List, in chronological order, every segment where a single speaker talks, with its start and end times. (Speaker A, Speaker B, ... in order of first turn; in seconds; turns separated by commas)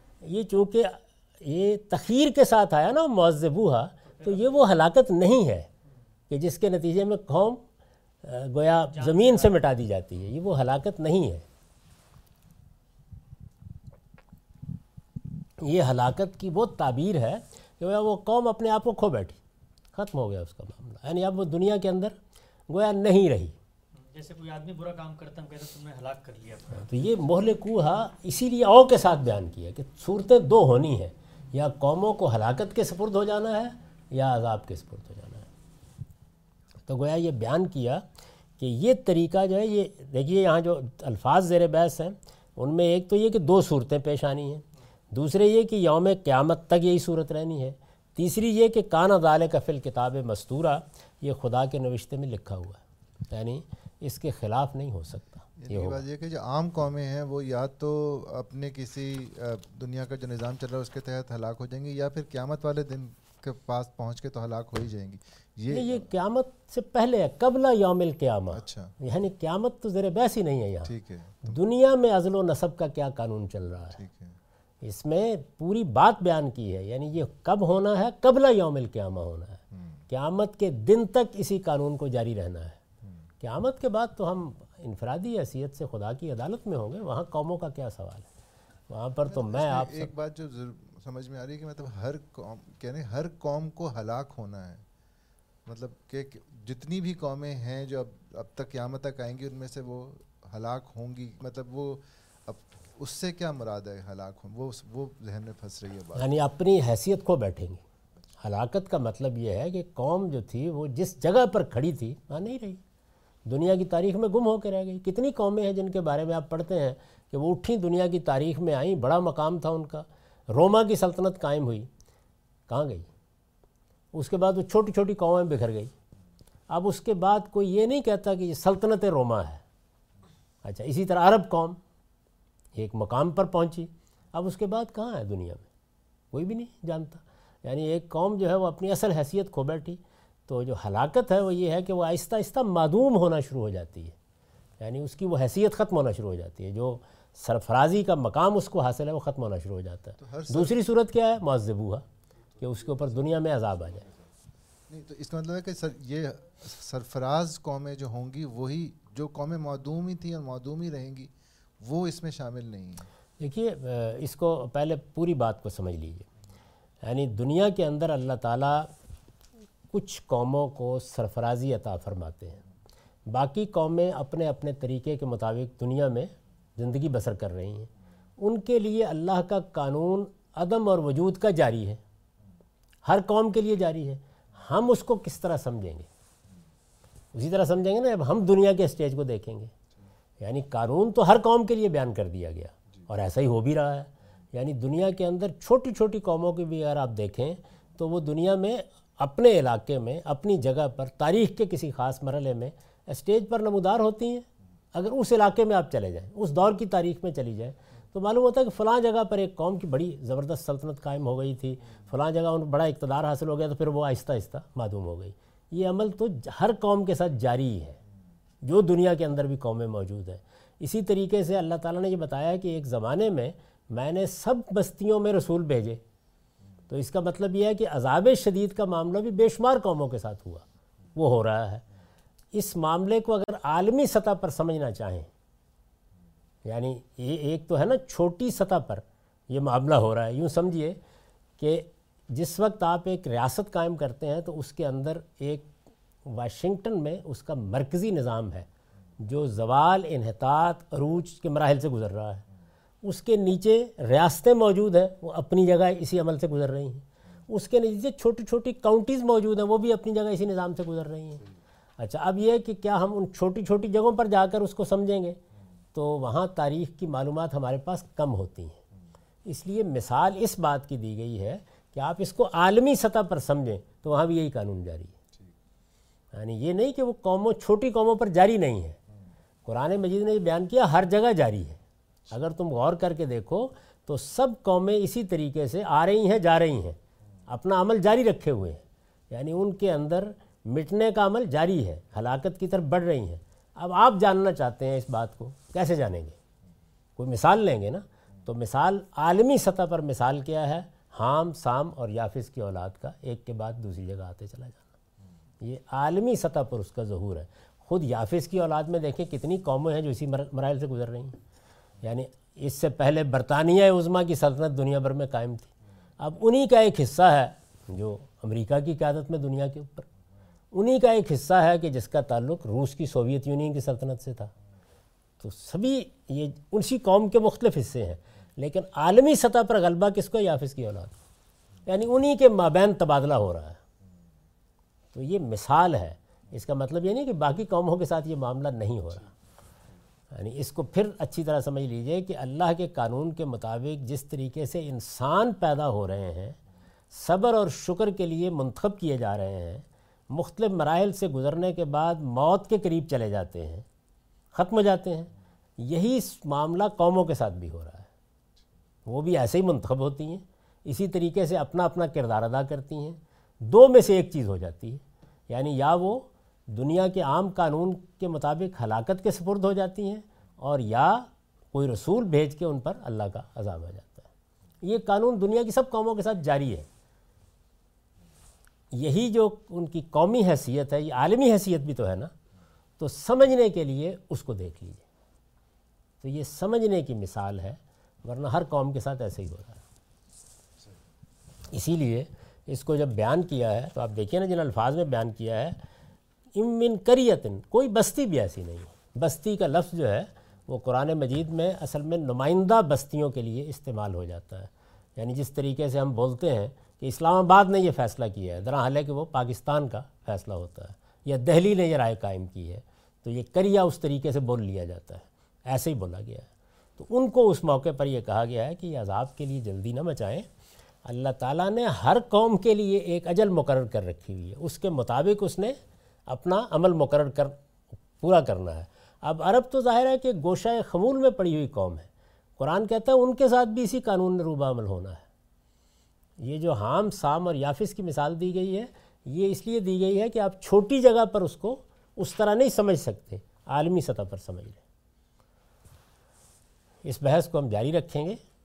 Speaker A: 0.2-5.7, Speaker B: 4.0-4.7, Speaker A: 6.3-7.6, Speaker A: 8.2-11.4, Speaker B: 8.9-9.6, Speaker A: 15.6-19.4, Speaker A: 19.9-22.1, Speaker A: 22.7-23.6, Speaker B: 24.0-26.9, Speaker A: 26.7-35.5, Speaker A: 36.9-38.0, Speaker A: 38.6-56.0, Speaker C: 55.6-66.1, Speaker A: 65.7-74.0, Speaker C: 68.5-68.9, Speaker C: 70.8-71.6, Speaker C: 73.9-74.4, Speaker A: 74.8-82.8, Speaker C: 79.7-80.0, Speaker A: 83.4-88.3, Speaker A: 88.9-90.1, Speaker C: 89.2-94.8, Speaker C: 95.7-106.3, Speaker A: 106.1-107.8, Speaker A: 108.4-112.8, Speaker A: 113.5-121.9, Speaker A: 122.7-123.1, Speaker A: 124.1-125.9, Speaker A: 126.7-129.6, Speaker A: 130.6-131.8, Speaker A: 132.7-135.6, Speaker A: 136.3-144.2, Speaker A: 144.8-152.0, Speaker C: 150.2-150.8, Speaker A: 152.6-154.1, Speaker C: 154.9-163.1, Speaker A: 163.4-166.3, Speaker A: 167.0-168.9, Speaker A: 169.9-172.6, Speaker A: 173.3-182.0, Speaker A: 183.0-186.1, Speaker A: 187.3-189.7, Speaker A: 190.4-218.0, Speaker A: 218.6-226.0, Speaker A: 226.9-231.8, Speaker A: 232.5-235.3, Speaker A: 236.6-241.0, Speaker A: 241.6-245.7, Speaker A: 246.2-248.7, Speaker A: 249.2-252.4, Speaker A: 253.0-261.4, Speaker A: 262.0-265.4, Speaker A: 265.9-268.8, Speaker A: 269.4-275.1, Speaker A: 276.3-279.0, Speaker A: 279.6-296.4, Speaker A: 297.2-304.9, Speaker A: 305.6-311.4, Speaker A: 312.0-320.1, Speaker A: 320.7-324.5, Speaker A: 325.4-331.2, Speaker A: 331.9-333.8, Speaker A: 335.1-339.3, Speaker A: 340.3-346.6, Speaker A: 347.1-353.9, Speaker A: 354.5-358.1, Speaker A: 359.1-374.3, Speaker A: 374.8-376.9, Speaker A: 378.9-382.3, Speaker A: 383.0-385.0, Speaker A: 386.2-389.8, Speaker A: 391.7-395.8, Speaker A: 396.5-420.5, Speaker A: 421.0-427.6, Speaker A: 428.2-435.2, Speaker A: 436.4-444.8, Speaker A: 447.0-448.4